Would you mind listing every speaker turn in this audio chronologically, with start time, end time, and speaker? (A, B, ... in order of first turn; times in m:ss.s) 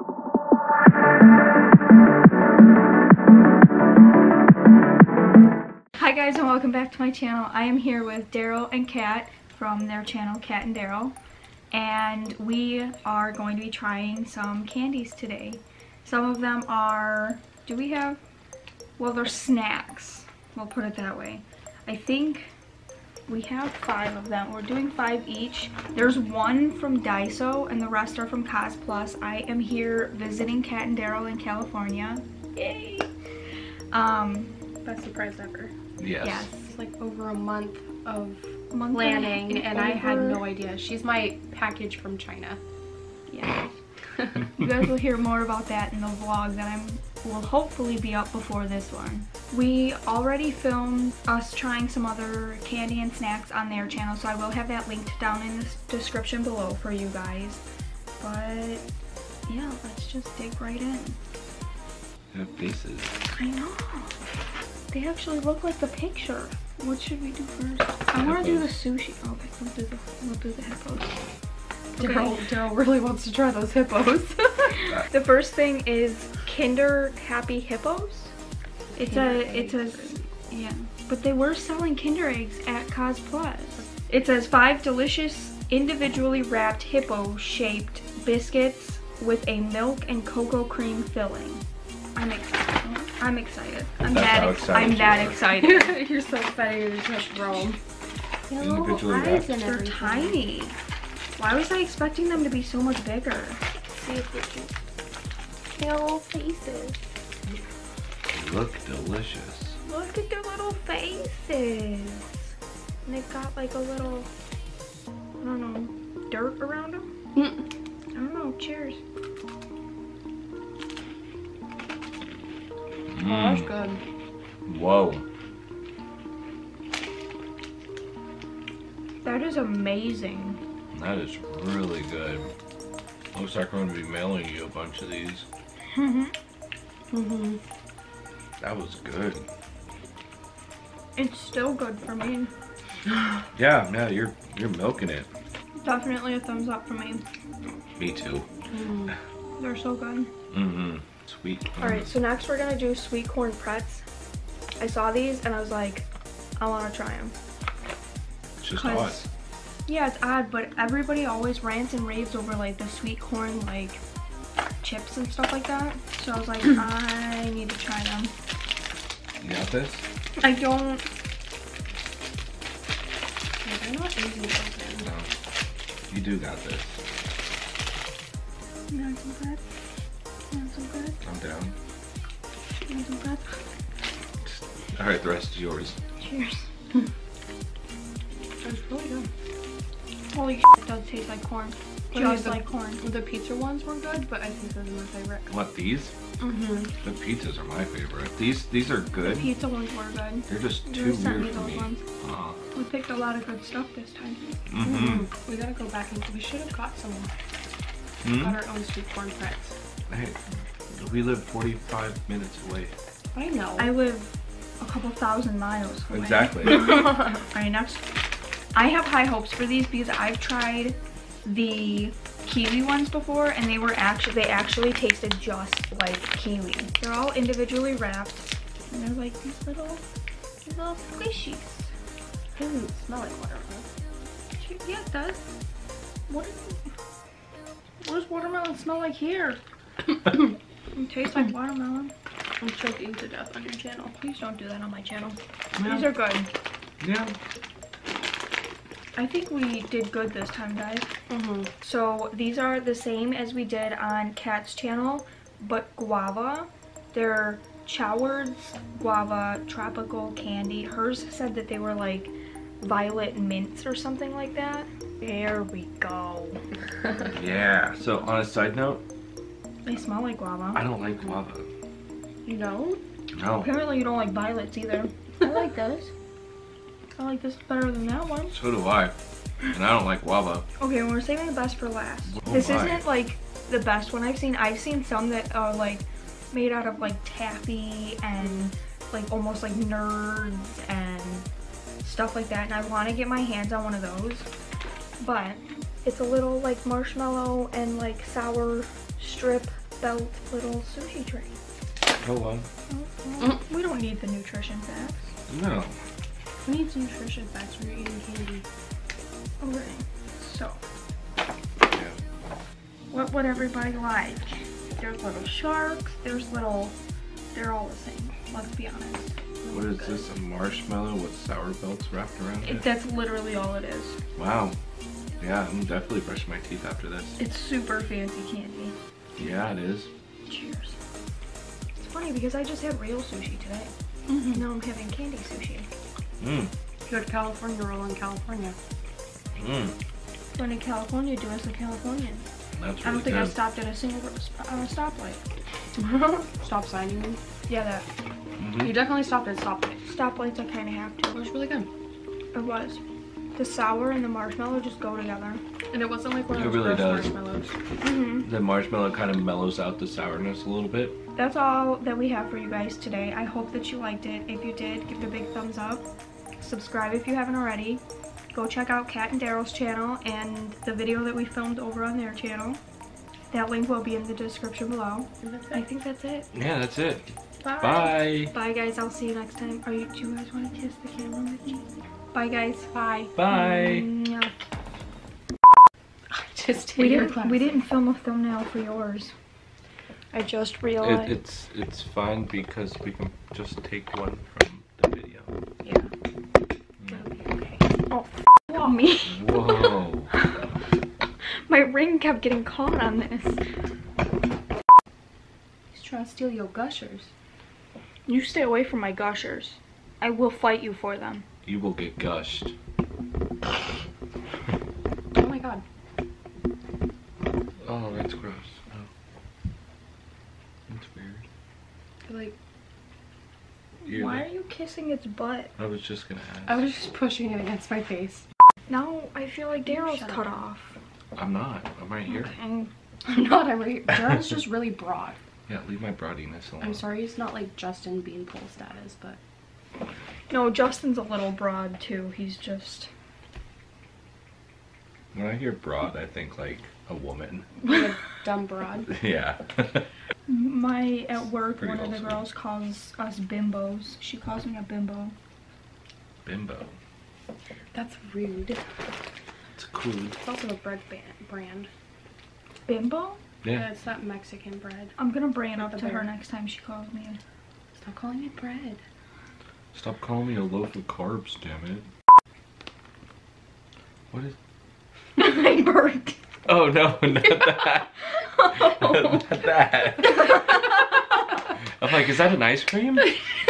0:06.0-0:11.2 A
0:11.7-0:18.2 A
0:19.0-0:22.5 A
0:23.3-0:33.1 A
0:33.9-0:34.6 A
0:34.8-0:35.7 B
0:36.0-0:36.5 C
0:36.2-0:36.7 A
0:36.7-0:42.6 B
0:38.7-0:40.5 A
0:43.3-0:43.8 A
0:44.5-0:57.6 A
0:58.2-0:58.8 A
0:59.5-1:01.2 A
1:02.3-1:03.2 C
1:03.3-1:04.2 A
1:04.9-1:11.2 A
1:08.1-1:08.8 C
1:12.0-1:12.4 A
1:12.0-1:14.8 B
1:14.8-1:18.3 A
1:18.9-1:20.2 B
1:19.0-1:31.6 A
1:32.1-1:36.0 A
1:34.0-1:35.4 C
1:35.6-1:37.8 B
1:38.5-1:40.4 B
1:38.6-1:39.5 C
1:39.6-1:40.8 A
1:41.4-1:44.7 A
1:45.8-1:47.0 B
1:48.3-1:49.8 C
1:49.8-1:52.5 A
1:53.0-1:54.3 A
1:55.4-1:57.1 A
1:57.4-1:57.6 B
1:58.1-1:59.0 A
2:03.1-2:03.7 C
2:03.2-2:04.0 B
2:04.6-2:05.2 C
2:09.2-2:10.6 A
2:10.9-2:12.5 C
2:13.3-2:15.4 C
2:15.9-2:16.3 A
2:17.1-2:17.6 B
2:18.6-2:19.4 C
2:21.2-2:22.5 A
2:23.5-2:25.3 C
2:25.8-2:27.2 A
2:28.0-2:28.4 C
2:28.7-2:29.1 B
2:29.6-2:30.3 A
2:30.5-2:32.1 C
2:31.8-2:34.0 A
2:34.8-2:37.3 A
2:38.6-2:39.2 C
2:38.7-2:39.3 A
2:39.8-2:44.0 A
2:44.8-2:48.3 A
2:49.4-2:50.0 C
2:50.4-2:51.0 A
2:53.6-2:55.1 B
2:55.0-2:55.3 C
2:56.1-2:57.0 C
2:58.9-2:59.6 A
3:00.5-3:01.2 A
3:01.2-3:01.7 C
3:02.9-3:03.6 A
3:04.4-3:06.0 C
3:06.2-3:06.7 A
3:08.6-3:09.3 B
3:10.3-3:13.0 A
3:12.1-3:15.5 B
3:15.5-3:16.1 C
3:16.4-3:16.9 B
3:17.0-3:19.5 C
3:19.2-3:22.0 A
3:20.5-3:22.6 C
3:22.7-3:24.4 A
3:24.7-3:25.3 C
3:24.8-3:27.3 B
3:28.2-3:28.6 C
3:28.2-3:29.7 B
3:30.1-3:30.4 C
3:30.9-3:32.9 C
3:33.3-3:34.0 B
3:33.8-3:38.0 A
3:36.1-3:37.0 C
3:38.7-3:50.0 A
3:50.6-3:51.9 A
3:52.5-3:53.9 B
3:54.6-3:55.5 A
3:56.3-3:56.8 A
3:58.0-3:59.6 A
4:00.9-4:02.1 A
4:02.6-4:04.2 B
4:04.1-4:06.5 A
4:05.8-4:06.1 C
4:07.0-4:07.3 C
4:09.1-4:11.1 A
4:11.3-4:11.7 B
4:11.8-4:26.6 A
4:27.3-4:29.0 C
4:29.8-4:30.8 A
4:30.7-4:31.7 C
4:32.4-4:33.0 B
4:33.3-4:33.7 C
4:33.6-4:35.1 A
4:35.4-4:36.1 B
4:37.2-4:38.5 A
4:38.5-4:39.1 C
4:39.7-4:40.6 C
4:40.8-4:51.5 A
4:42.3-4:43.0 C
4:52.0-4:54.5 A
4:55.2-5:01.6 A
5:02.2-5:02.7 C
5:02.9-5:05.3 A
5:05.5-5:05.9 C
5:06.6-5:08.6 B
5:09.6-5:10.8 A
5:11.9-5:12.2 C
5:13.1-5:16.9 A
5:17.5-5:19.3 A
5:19.6-5:20.3 B
5:19.7-5:22.9 C
5:22.6-5:24.2 A
5:24.4-5:24.8 C
5:25.4-5:27.4 C
5:27.4-5:28.9 A
5:29.4-5:30.1 C
5:30.5-5:31.0 A
5:32.0-5:33.9 A
5:34.3-5:34.6 B
5:34.5-5:35.9 A
5:36.4-5:36.7 C
5:37.1-5:38.8 B
5:39.5-5:39.9 C
5:40.5-5:42.5 A
5:42.8-5:43.6 C
5:43.0-5:45.4 A
5:46.0-5:47.4 B
5:47.7-5:48.0 A
5:48.6-5:49.0 C
5:48.7-5:50.0 B
5:50.0-5:51.4 A
5:51.3-5:51.9 B
5:52.5-5:53.0 A
5:53.5-5:55.6 A
5:55.9-5:57.7 B
5:56.5-5:57.3 C
5:58.0-5:58.4 A
5:58.4-6:01.2 C
6:01.3-6:06.0 A
6:06.6-6:08.0 A
6:08.5-6:12.8 A
6:13.5-6:16.5 A
6:15.4-6:15.8 B
6:16.5-6:17.3 C
6:17.6-6:18.1 B
6:17.8-6:18.5 C
6:18.5-6:22.9 A
6:22.9-6:23.3 B
6:23.3-6:24.1 C
6:23.5-6:24.5 A
6:26.3-6:27.8 B
6:26.9-6:29.3 A
6:30.3-6:31.4 A
6:31.0-6:35.5 C
6:35.8-6:36.1 B
6:37.1-6:37.9 B
6:38.1-6:39.5 A
6:39.2-6:40.3 C
6:41.6-6:43.6 A
6:45.9-6:47.3 B
6:48.3-6:51.4 A
6:51.6-6:52.7 C
6:55.3-6:55.8 B
6:57.8-6:59.1 C
7:00.9-7:01.4 C
7:02.2-7:02.5 B
7:04.0-7:05.7 A
7:04.0-7:04.4 C
7:05.8-7:06.8 C
7:06.6-7:08.4 B
7:08.9-7:11.0 A
7:09.8-7:10.6 B
7:11.4-7:12.5 C
7:12.3-7:12.9 A
7:13.2-7:15.4 B
7:15.7-7:17.0 C
7:16.8-7:19.4 B
7:20.5-7:23.1 A
7:25.3-7:27.7 C
7:27.8-7:29.1 B
7:29.1-7:30.1 C
7:30.5-7:35.3 A
7:31.8-7:32.5 C
7:36.4-7:36.9 C
7:37.9-7:38.8 B
7:39.8-7:40.4 C
7:40.4-7:41.9 B
7:42.8-7:43.4 A
7:43.7-7:45.2 B
7:45.2-7:47.4 A
7:45.8-7:46.3 B
7:48.0-7:49.0 B
7:49.9-7:52.1 C
7:54.3-7:54.6 C
7:55.4-7:56.4 A
7:56.6-8:00.6 C
7:58.3-7:59.5 A
8:02.0-8:03.4 C